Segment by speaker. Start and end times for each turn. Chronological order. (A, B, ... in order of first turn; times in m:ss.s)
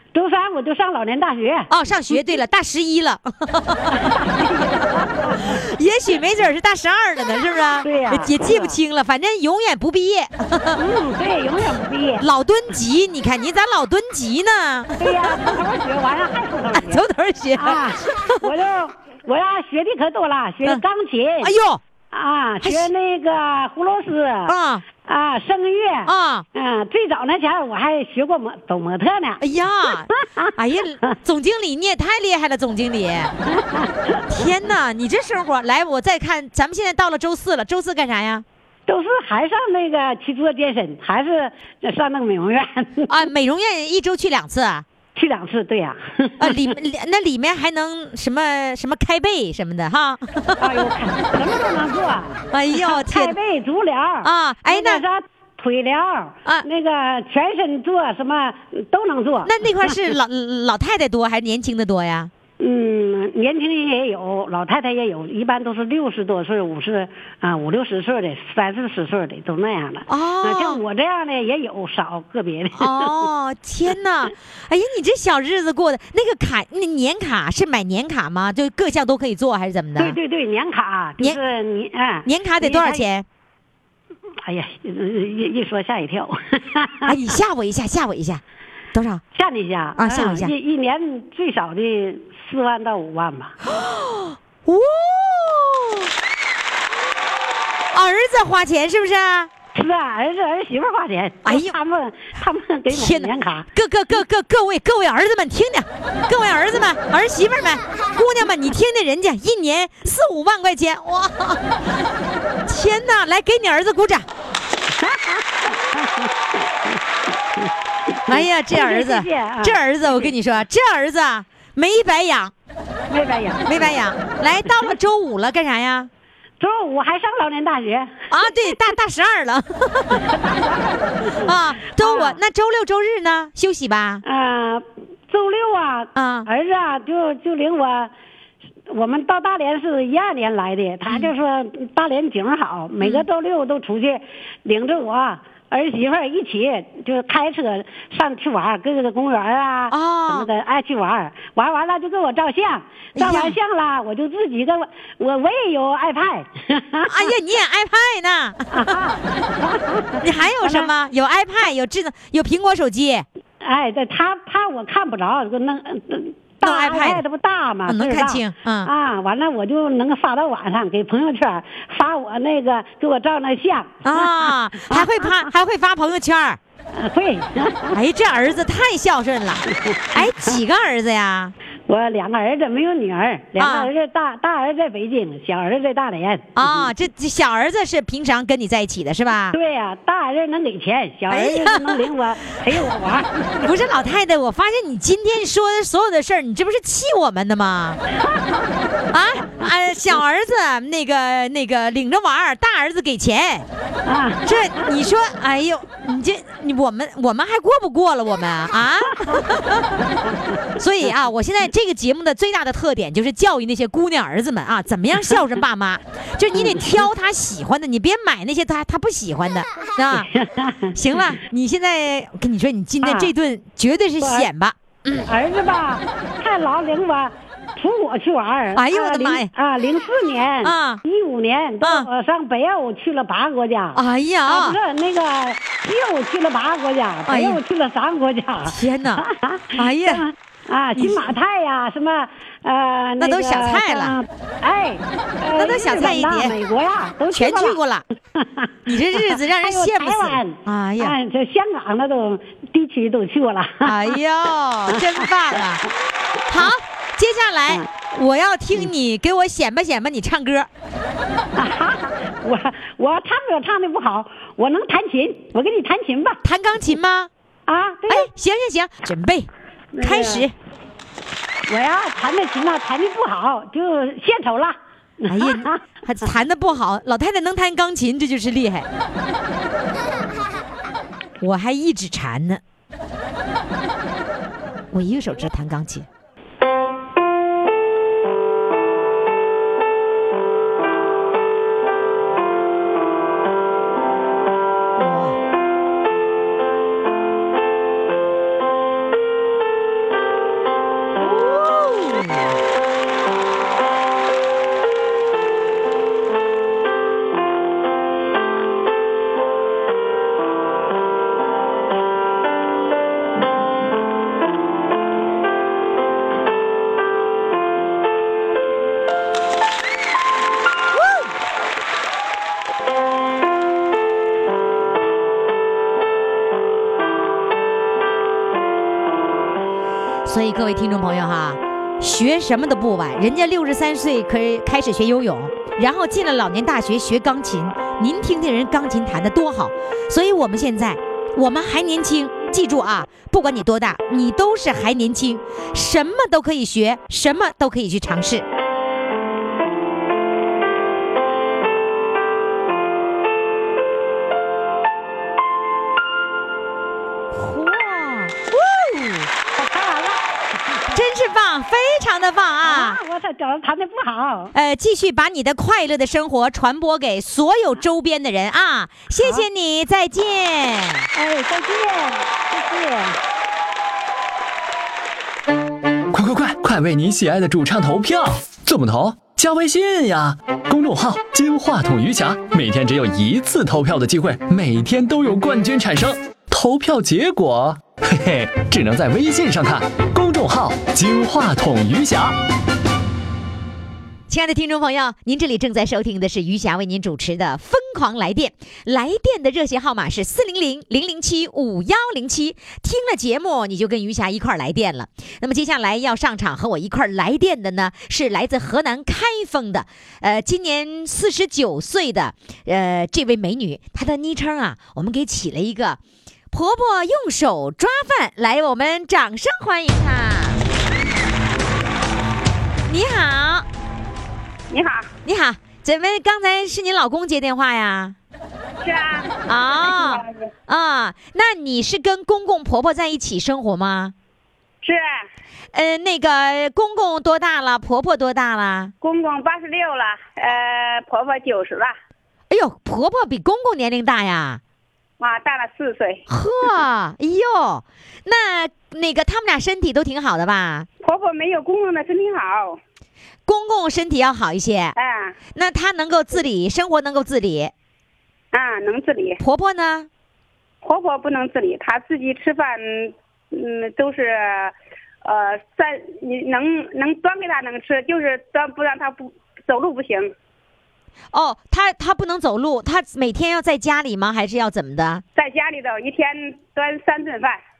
0:00.1-0:02.2 A
0:01.7-0:04.1 B
0:03.9-0:05.6 A
0:05.3-0:10.8 B
0:07.8-0:08.8 A
0:10.8-0:12.2 A
0:12.2-0:15.6 B
0:15.0-0:17.0 A
0:16.7-0:18.5 B
0:17.6-0:21.5 A
0:21.4-0:21.8 B
0:22.1-0:29.4 A
0:22.6-0:22.9 B
0:24.5-0:24.8 B
0:26.0-0:26.4 B
0:29.4-0:33.3 B
0:30.1-0:30.5 A
0:33.5-0:34.4 A
0:34.3-0:38.4 B
0:38.9-0:43.2 A
0:43.1-0:44.8 B
0:45.1-0:46.7 A
0:46.4-0:50.9 B
0:50.6-1:00.0 A
0:52.5-0:53.4 B
0:54.2-0:55.0 B
0:59.4-1:02.3 B
1:02.6-1:13.2 A
1:10.1-1:10.8 B
1:12.7-1:20.2 B
1:20.0-1:23.0 A
1:22.2-1:23.2 B
1:24.4-1:27.1 A
1:27.0-1:28.4 B
1:28.9-1:29.2 B
1:29.3-1:33.5 A
1:30.0-1:30.5 B
1:33.6-1:36.1 B
1:37.9-1:39.5 B
1:39.7-1:43.7 A
1:41.4-1:41.7 B
1:42.9-1:51.6 B
1:52.6-1:54.3 B
1:54.9-1:57.0 A
1:57.6-2:00.3 A
1:58.3-2:02.5 B
2:03.1-2:03.9 A
2:03.6-2:06.1 B
2:06.6-2:08.8 A
2:08.3-2:10.2 B
2:10.1-2:12.4 A
2:11.4-2:14.2 B
2:14.2-2:18.1 A
2:16.1-2:16.5 B
2:18.9-2:37.3 A
2:23.0-2:23.3 B
2:29.9-2:30.5 B
2:33.2-2:33.6 B
2:37.1-2:39.0 B
2:38.7-2:40.9 A
2:40.2-2:43.2 B
2:43.6-2:55.4 A
2:46.6-2:47.2 B
2:47.9-2:48.9 B
2:54.0-2:56.6 B
2:56.9-2:58.0 A
2:57.9-3:01.5 B
2:59.7-3:00.6 A
3:01.9-3:06.9 A
3:03.6-3:03.9 B
3:06.6-3:09.6 B
3:09.5-3:13.7 A
3:11.3-3:12.1 B
3:13.6-3:18.0 B
3:18.2-3:18.9 A
3:19.1-3:23.7 B
3:24.0-3:24.9 A
3:24.4-3:30.0 B
3:30.0-3:30.4 A
3:30.8-3:40.3 B
3:36.6-3:36.9 A
3:40.1-3:41.0 A
3:40.9-3:45.3 B
3:43.0-3:43.3 A
3:44.2-3:44.5 A
3:45.2-4:07.8 A
3:48.7-3:49.5 B
3:50.6-3:51.0 B
3:51.8-3:52.1 B
3:53.9-3:54.8 B
3:57.3-3:57.6 B
3:58.7-4:00.2 B
4:01.0-4:01.3 B
4:03.2-4:04.2 B
4:05.5-4:06.6 B
4:07.3-4:08.0 B
4:08.3-4:14.1 A
4:08.8-4:11.2 B
4:13.8-4:15.8 B
4:14.9-4:15.2 A
4:16.5-4:20.7 B
4:21.6-4:26.4 A
4:26.4-4:27.3 B
4:27.7-4:28.3 A
4:28.1-4:30.5 B
4:30.0-4:30.4 C
4:31.7-4:35.8 A
4:35.3-4:38.9 B
4:41.4-4:42.6 B
4:44.9-4:46.1 B
4:55.0-4:55.4 B
5:01.2-5:02.6 B
5:20.9-5:21.3 B
5:30.2-5:48.4 B
5:57.3-5:59.3 B
5:59.6-6:01.0 A
6:00.9-6:03.0 B
6:02.6-6:04.5 A
6:04.5-6:11.1 B
6:11.1-6:13.2 A
6:16.1-6:32.4 D
6:34.3-6:56.0 B
6:56.5-7:00.6 B
7:02.9-7:03.6 B
7:04.7-7:05.1 C
7:05.2-7:08.1 B
7:08.8-7:10.5 C
7:09.5-7:14.1 B
7:14.8-7:15.1 C
7:15.7-7:18.9 B
7:19.0-7:21.9 C
7:22.5-7:24.6 B
7:25.2-7:26.2 C
7:26.3-7:30.9 B
7:31.0-7:32.8 C
7:33.5-7:34.9 B
7:35.0-7:35.4 C
7:35.5-7:37.7 B
7:38.5-7:39.4 C
7:39.4-7:40.1 B
7:40.8-7:50.3 C
7:51.3-7:55.2 B
7:55.4-7:57.6 C